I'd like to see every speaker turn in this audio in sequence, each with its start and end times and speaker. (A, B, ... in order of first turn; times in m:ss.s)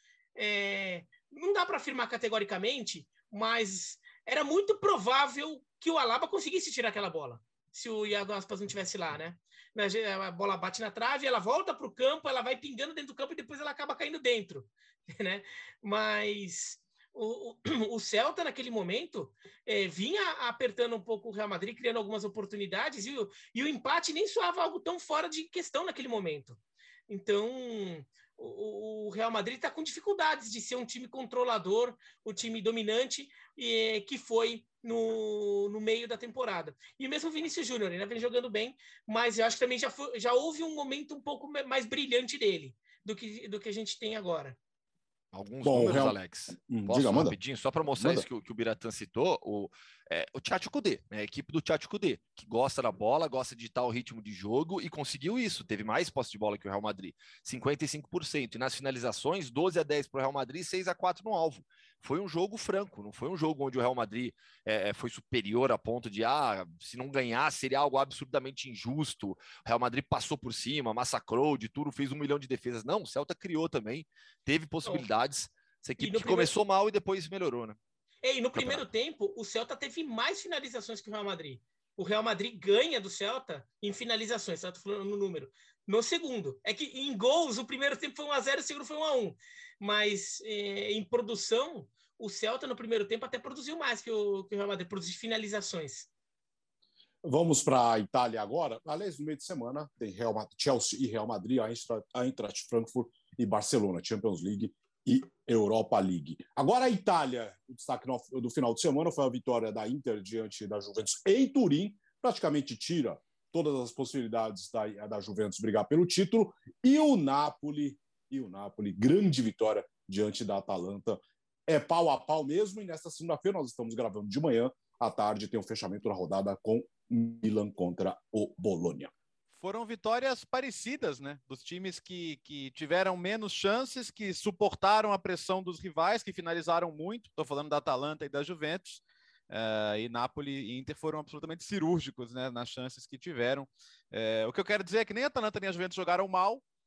0:00.4-0:26.6 A
0:27.1-0:44.6 A
0:45.3-1:17.8 B
0:45.6-0:47.4 C
0:48.0-0:48.3 C
1:16.0-1:16.5 A
1:18.2-1:36.1 A
1:18.6-1:18.8 B
1:37.2-2:09.1 C
2:09.5-2:26.6 D